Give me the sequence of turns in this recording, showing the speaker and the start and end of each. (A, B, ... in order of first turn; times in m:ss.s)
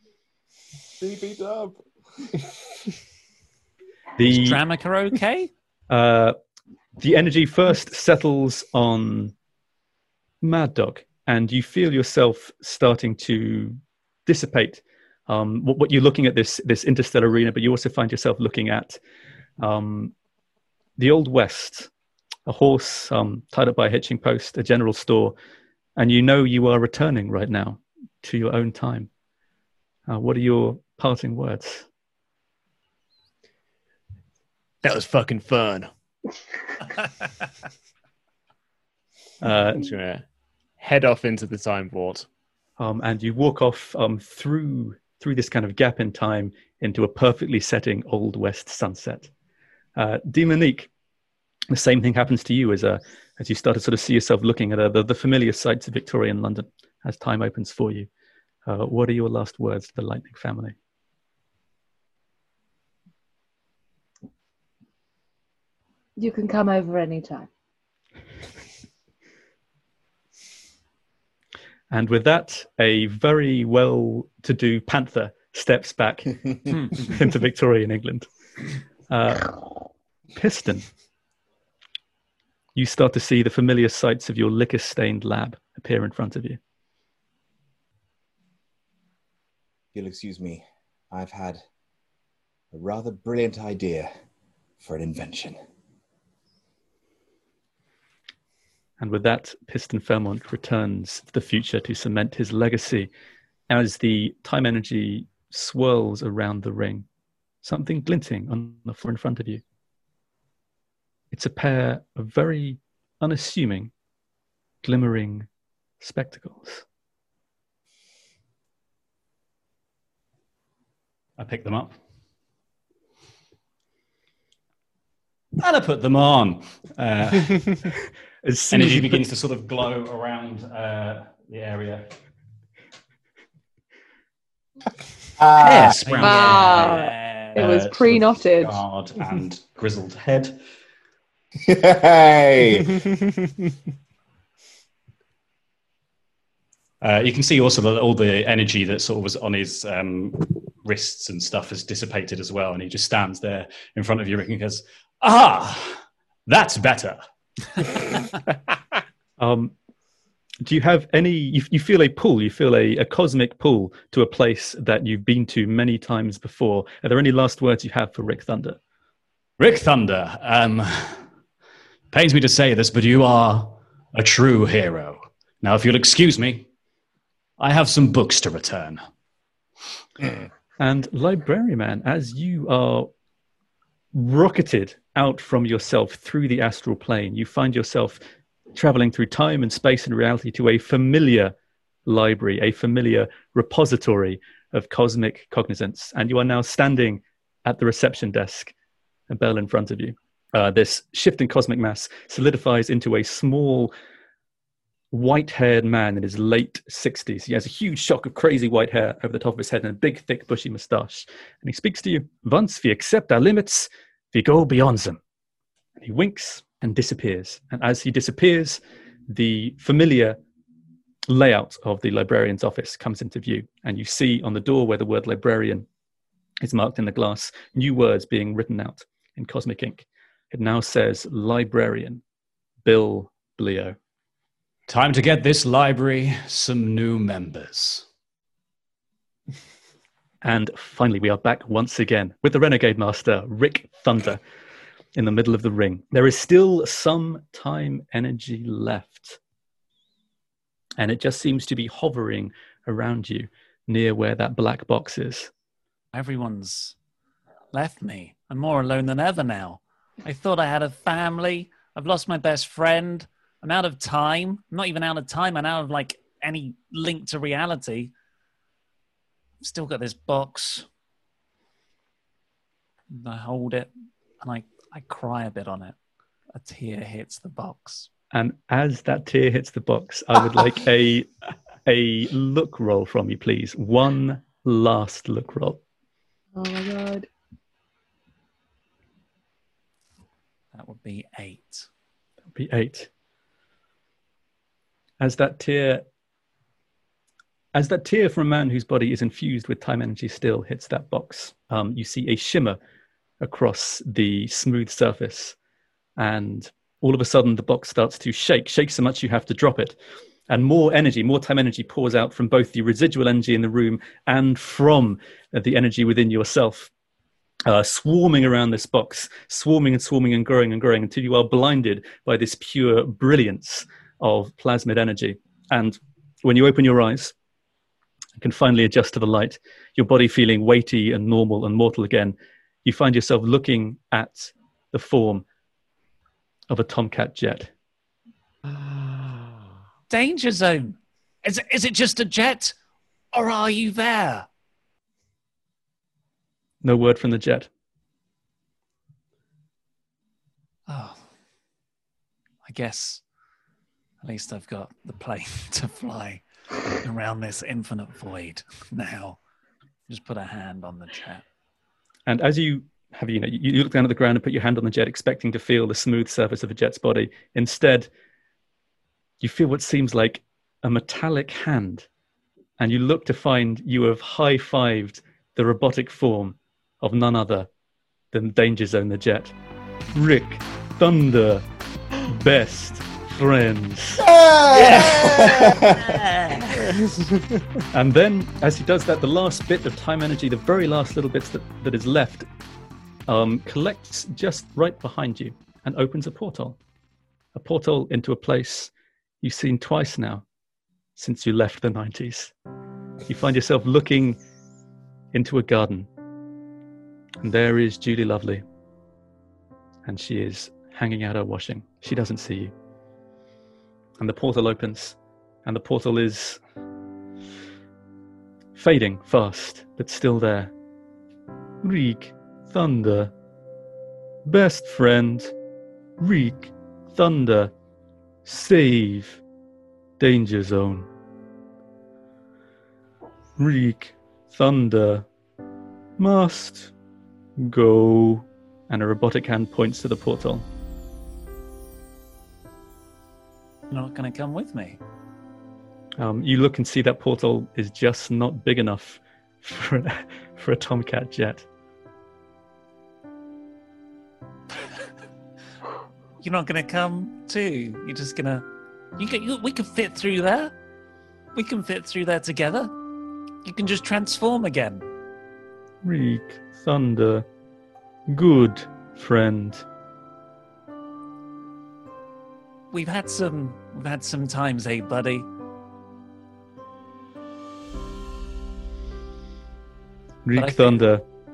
0:01.0-0:01.8 A
0:04.2-0:04.6 B
0:04.3-0:05.5 C
0:05.9-0:06.4 B
0:07.0-0:09.3 B
0:10.4-0:19.0 B
0:19.6-0:20.1 B
0:21.0-0:21.9 B
0:22.5-0:25.4 B
0:26.0-0:29.1 B
0:30.1-0:31.9 B
0:34.8-0:35.9 D
0:39.4-0:39.8 B
0:39.5-0:40.2 D
0:40.8-0:42.3 D
0:42.8-0:49.3 B
0:50.0-0:50.9 B
0:51.7-0:58.1 B
0:58.6-1:00.7 B
1:06.2-1:07.5 E
1:11.9-1:18.3 B
1:19.1-1:19.6 B
1:20.4-1:20.9 B
1:22.8-1:26.6 B
1:29.9-1:31.6 A
1:32.7-1:34.1 A
1:34.8-1:35.6 A
1:39.0-1:43.1 B
1:43.7-1:47.1 B
1:47.6-1:49.6 B
1:51.3-1:53.9 B
1:54.8-1:55.5 B
1:56.0-1:56.8 B
2:01.4-2:01.9 F
2:05.6-2:07.8 F
2:08.4-2:09.2 B
2:08.7-2:12.0 F
2:15.4-2:16.2 A
2:15.6-2:20.6 F
2:15.6-2:17.5 C
2:16.2-2:18.8 E
2:21.6-2:22.9 A
2:27.0-2:37.2 F
2:37.8-2:38.2 F
2:39.4-2:39.7 B
2:40.6-2:48.8 B
2:49.6-2:51.2 F
2:52.1-2:56.7 F
2:57.6-2:59.0 F
3:00.8-3:03.1 B
3:04.1-3:08.2 B
3:08.7-3:11.5 B
3:12.1-3:18.7 B
3:19.3-3:23.9 B
3:25.1-3:35.2 B
3:36.0-3:40.4 B
3:41.3-3:45.9 B
3:46.6-3:52.2 B
3:52.8-3:54.0 B
3:54.9-3:58.1 F
4:00.4-4:04.4 B
4:05.2-4:09.4 B
4:11.0-4:15.5 B
4:16.1-4:17.0 C
4:17.7-4:28.1 C
4:29.6-4:30.9 C
4:33.1-4:33.9 C
4:34.4-4:35.9 C
4:36.5-4:38.1 C
4:38.3-4:41.3 B
4:41.9-4:45.8 B
4:46.6-4:47.3 E
4:50.7-4:51.9 C
4:52.5-4:53.1 B
4:55.2-4:56.0 B
4:57.7-5:02.8 B
5:03.4-5:05.6 B
5:06.2-5:10.0 B
5:10.5-5:16.9 B
5:17.6-5:27.3 B
5:28.4-5:35.4 B
5:36.7-5:37.7 B
5:40.1-5:42.7 C
5:43.3-5:44.5 C
5:46.8-5:47.7 B
5:50.9-5:51.2 C
5:52.6-5:53.2 C
5:54.2-5:56.4 C
5:57.0-5:59.4 C
6:00.1-6:01.4 C
6:02.3-6:08.1 B
6:09.4-6:12.1 B
6:12.8-6:17.7 B
6:18.3-6:19.5 B
6:20.2-6:21.6 B
6:22.3-6:24.3 B
6:24.2-6:26.2 A
6:25.0-6:25.5 F
6:25.8-6:26.8 C
6:27.9-6:32.5 B
6:33.3-6:36.8 B
6:37.6-6:40.4 B
6:41.2-6:42.5 B
6:43.3-6:44.4 B
6:45.3-6:46.1 B
6:47.4-6:48.6 B
6:50.0-6:52.7 B
6:54.2-6:56.6 B
6:58.8-7:00.7 B
7:01.8-7:03.3 B
7:04.4-7:05.5 B
7:06.2-7:07.7 B
7:08.4-7:09.4 B
7:10.2-7:11.1 B
7:13.6-7:15.3 B
7:16.2-7:16.9 B
7:17.6-7:20.6 B
7:23.9-7:25.0 C
7:26.2-7:31.6 B
7:36.4-7:38.6 C
7:39.2-7:40.7 C
7:41.5-7:42.9 C
7:43.6-7:45.0 C
7:46.0-7:47.4 B
7:48.3-7:49.8 B
7:52.9-7:55.5 C
8:00.4-8:01.2 B
8:00.6-8:01.0 C